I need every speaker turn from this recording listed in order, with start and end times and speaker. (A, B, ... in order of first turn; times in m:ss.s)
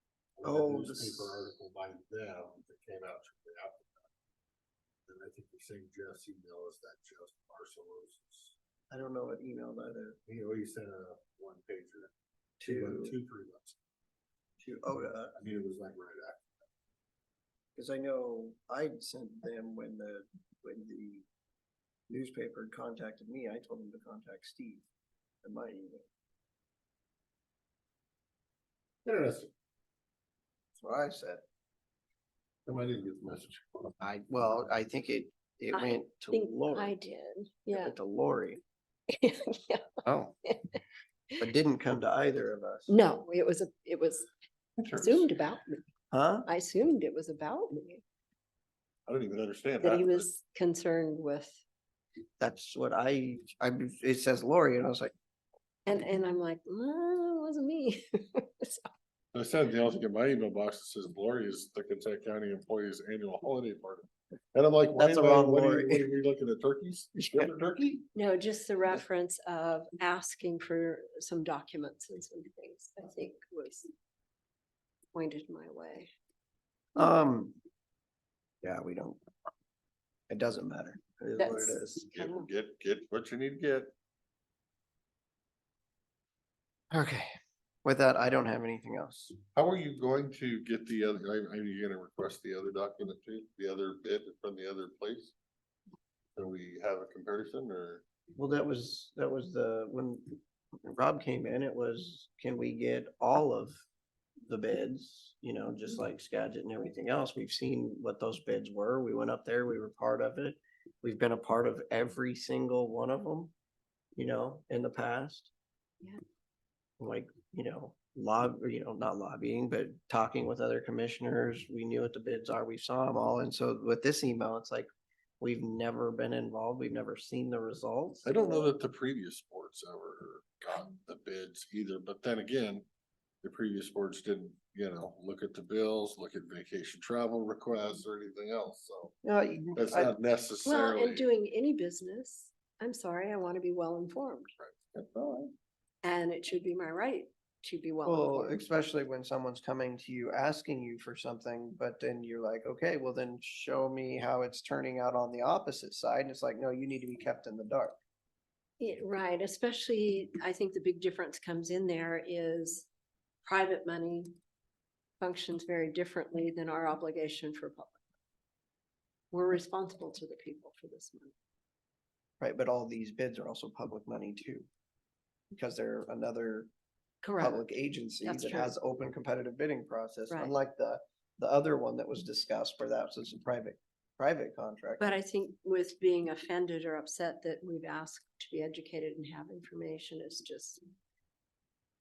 0:00.4-0:04.0 A
0:00.4-0:01.4 B
0:05.1-0:08.6 A
0:08.9-0:10.2 B
0:10.3-0:13.8 A
0:12.6-0:13.2 B
0:14.6-0:15.3 B
0:15.3-0:16.5 A
0:17.8-0:21.2 B
0:22.1-0:24.8 B
0:25.4-0:26.1 B
0:29.0-0:29.5 A
0:30.8-0:31.4 B
0:32.7-0:33.9 A
0:34.0-0:37.0 B
0:35.7-0:38.0 C
0:37.7-0:38.6 B
0:39.1-0:39.9 C
0:40.0-0:40.3 B
0:40.4-0:40.8 C
0:41.4-0:42.9 B
0:42.9-0:44.3 C
0:44.8-0:45.4 A
0:45.0-0:45.8 C
0:46.1-0:46.5 B
0:46.5-0:48.0 C
0:49.1-0:50.3 A
0:49.8-0:51.6 C
0:52.4-0:55.1 B
0:55.9-0:58.9 C
0:59.3-1:08.1 A
1:05.0-1:06.1 B
1:08.2-1:13.9 C
1:15.1-1:16.1 C
1:17.0-1:17.6 B
1:18.6-1:19.2 B
1:20.3-1:22.0 B
1:21.4-1:22.5 C
1:21.4-1:23.9 A
1:26.9-1:27.3 B
1:27.8-1:29.3 B
1:29.5-1:35.3 A
1:36.4-1:38.0 A
1:38.4-1:43.8 B
1:44.5-1:53.5 B
1:54.2-1:55.5 B
1:57.0-2:04.9 B
2:05.4-2:08.7 B
2:08.2-2:12.8 A
2:13.4-2:19.1 A
2:19.2-2:20.1 B
2:19.8-2:21.3 A
2:20.7-2:24.5 C
2:24.6-2:25.5 A
2:26.0-2:28.6 C
2:28.0-2:38.0 B
2:38.8-2:42.9 C
2:43.4-2:44.3 C
2:45.2-2:48.0 C
2:49.3-2:51.3 C
2:52.4-2:54.7 B
2:55.5-2:56.7 B
2:57.2-2:57.6 C
2:57.4-3:05.1 B
2:58.2-2:58.7 C
3:05.0-3:10.8 C